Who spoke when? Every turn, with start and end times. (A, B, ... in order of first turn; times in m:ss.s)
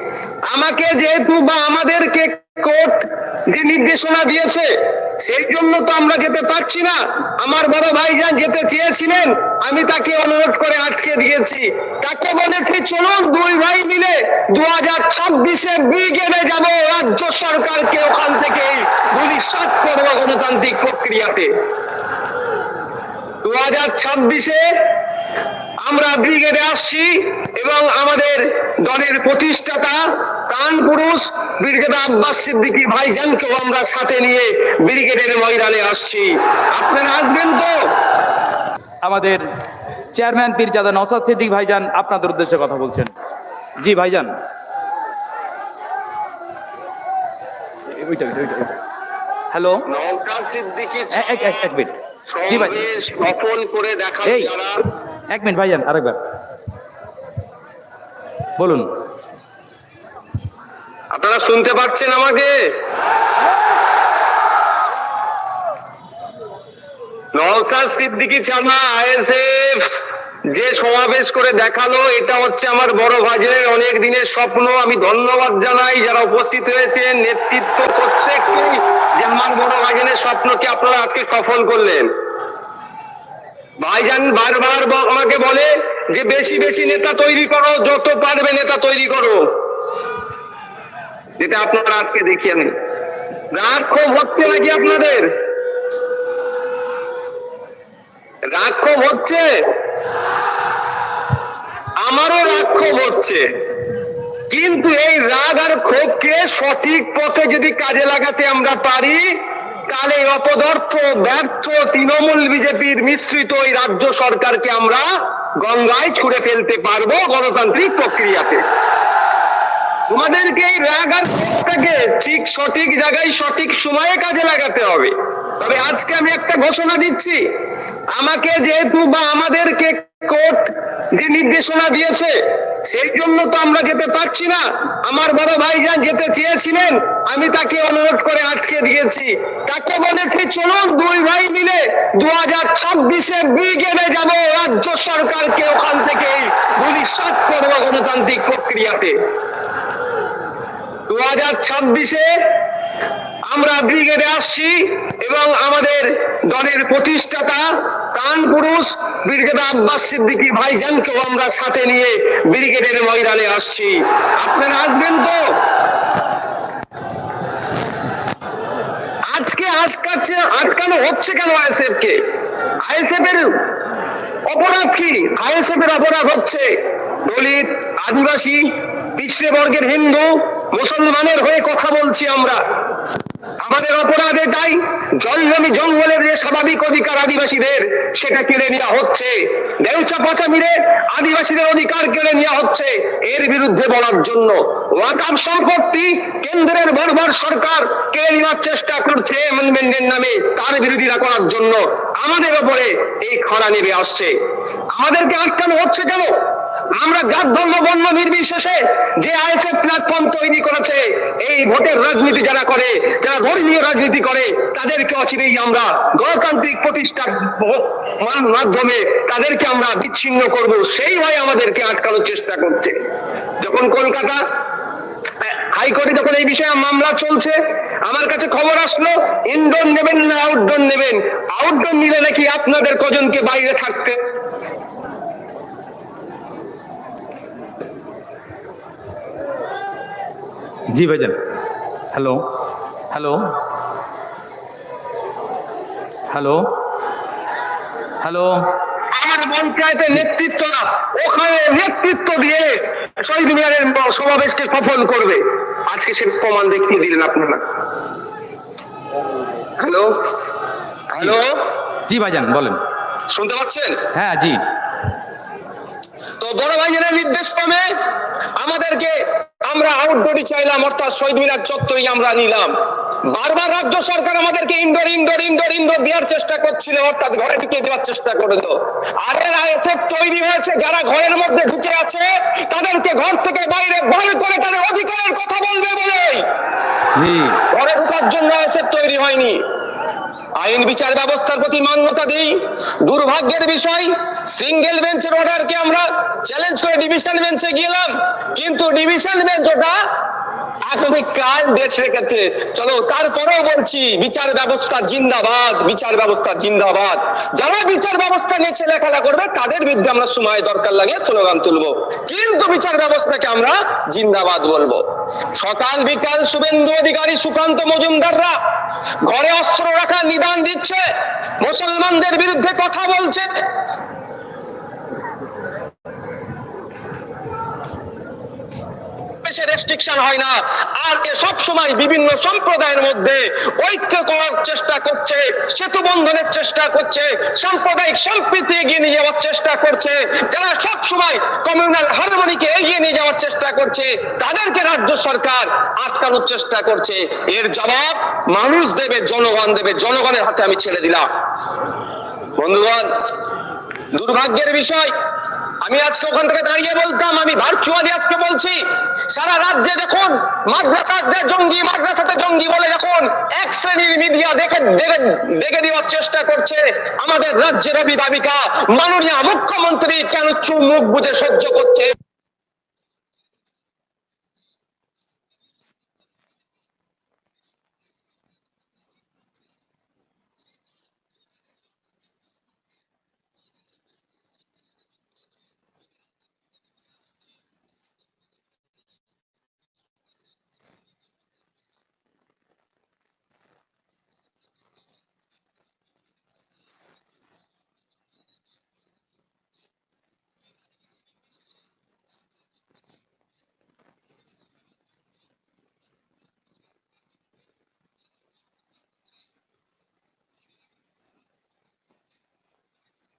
0:00.5-0:04.7 A
0:05.2-0:21.5 A
0:23.4-0:24.6 A
0:25.8-0:37.7 A
0:39.0-0:39.4 B
0:40.1-0:43.1 B
0:43.8-0:44.3 B
0:48.0-0:48.7 B
0:49.5-0:49.8 B
0:49.9-0:51.7 A
0:51.1-0:51.9 B
0:52.3-0:54.8 A
0:52.5-0:52.9 B
0:54.2-0:54.5 B
0:55.3-0:56.2 B
0:58.6-0:58.9 B
1:01.1-1:02.5 A
1:07.3-1:09.9 A
1:10.5-1:22.1 A
1:23.8-1:29.4 A
1:31.4-1:32.7 A
1:33.5-1:35.3 A
1:38.5-1:39.4 A
1:42.0-1:43.4 A
1:44.5-1:49.3 A
1:49.9-1:55.1 A
1:55.6-1:58.6 A
2:00.1-2:07.4 A
2:08.1-2:12.3 A
2:12.9-2:29.1 A
2:31.1-2:32.3 A
2:33.5-2:45.4 A
2:49.3-2:52.2 A
2:52.8-2:53.5 A
2:54.5-2:56.6 A
2:57.3-2:58.6 A
2:59.1-3:02.6 A
3:03.6-3:24.3 A
3:24.9-3:26.3 A
3:27.0-3:43.0 A
3:43.6-3:44.4 A
3:45.4-3:54.2 A
4:00.9-4:01.4 B
4:02.1-4:02.4 B
4:03.1-4:03.5 B
4:06.3-4:06.7 B
4:08.2-4:08.7 B
4:09.1-4:17.6 A
4:19.8-4:20.1 A
4:21.1-4:21.6 A
4:22.1-4:22.8 B
4:23.3-4:24.0 A
4:24.1-4:24.6 B
4:26.4-4:27.8 A
4:28.6-4:32.7 A
4:33.3-4:46.4 A
4:47.2-4:47.6 B
4:47.7-4:49.6 A
4:50.6-4:59.9 A
5:00.9-5:15.0 A
5:15.6-5:18.5 A
5:19.2-5:21.0 A
5:21.6-5:23.4 A
5:29.4-5:51.2 A
5:52.6-5:53.2 A
5:54.1-5:55.1 A
5:55.8-5:58.8 A
5:59.3-6:12.1 A